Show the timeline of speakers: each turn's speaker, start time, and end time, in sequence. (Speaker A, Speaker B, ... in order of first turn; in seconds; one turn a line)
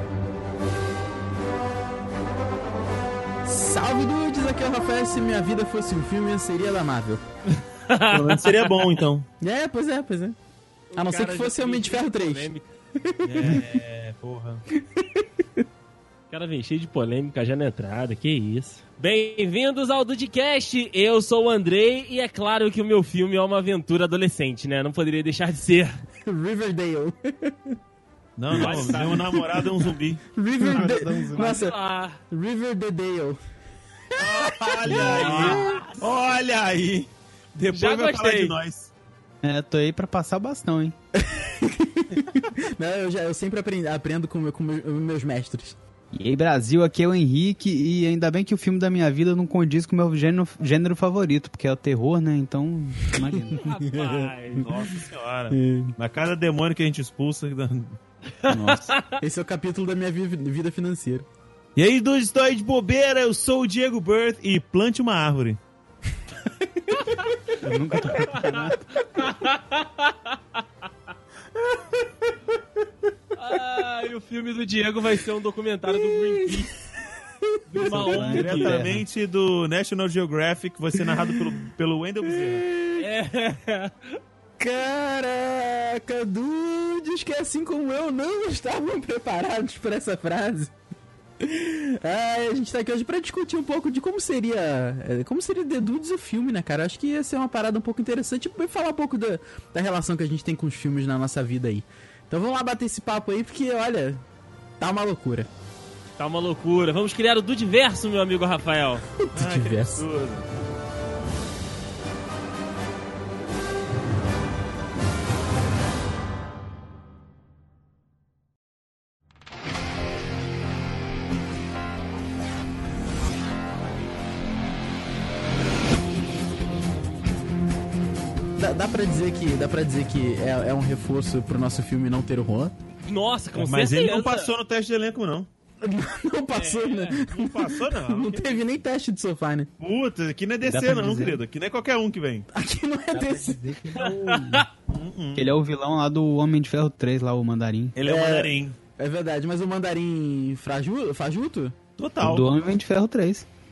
Speaker A: 3.5-7.2
Speaker B: 7.9-8.9
Speaker C: 8.1-9.3
Speaker A: 9.4-10.4
Speaker B: 10.9-12.7
Speaker A: 10.9-12.5
Speaker A: 13.0-13.6
Speaker C: 13.2-14.6
Speaker A: 15.0-15.6
Speaker B: 16.3-26.0
Speaker A: 26.2-27.8
Speaker C: 28.4-31.6
Speaker A: 28.5-29.7
Speaker B: 28.6-29.2
Speaker A: 30.4-31.8
Speaker B: 30.8-32.2
Speaker A: 32.3-33.4
Speaker A: 34.2-36.0
Speaker C: 34.2-38.9
Speaker B: 34.9-36.0
Speaker B: 37.7-38.5
Speaker D: 39.4-41.0
Speaker A: 41.1-45.8
Speaker D: 46.1-53.6
Speaker A: 53.2-54.7
Speaker B: 53.5-54.7
Speaker C: 54.6-58.0
Speaker A: 55.5-55.9
Speaker B: 58.4-59.2
Speaker D: 58.5-58.9
Speaker A: 59.2-61.3
Speaker C: 61.8-65.6
Speaker A: 66.7-67.1
Speaker B: 67.0-67.3
Speaker D: 67.6-68.8
Speaker B: 68.2-70.6
Speaker A: 71.6-72.4
Speaker B: 73.4-76.7
Speaker A: 75.9-76.7
Speaker B: 77.7-78.8
Speaker D: 77.8-79.0
Speaker C: 78.0-82.7
Speaker A: 81.0-81.5
Speaker A: 82.3-83.1
Speaker B: 83.0-84.0
Speaker A: 84.6-90.7
Speaker A: 91.4-104.2
Speaker A: 104.8-105.5
Speaker B: 106.2-109.0
Speaker A: 109.2-110.1
Speaker C: 109.3-110.5
Speaker A: 128.6-132.7
Speaker B: 133.1-134.5
Speaker C: 133.6-135.5
Speaker A: 135.8-139.7
Speaker B: 136.5-137.2
Speaker C: 137.2-138.8
Speaker C: 139.8-142.5
Speaker D: 140.6-141.4
Speaker A: 142.5-143.6
Speaker D: 143.1-144.7
Speaker B: 144.0-144.7
Speaker C: 144.9-145.5
Speaker D: 145.3-148.0
Speaker C: 148.0-148.8
Speaker A: 148.0-151.8
Speaker C: 152.0-152.6
Speaker D: 152.2-153.5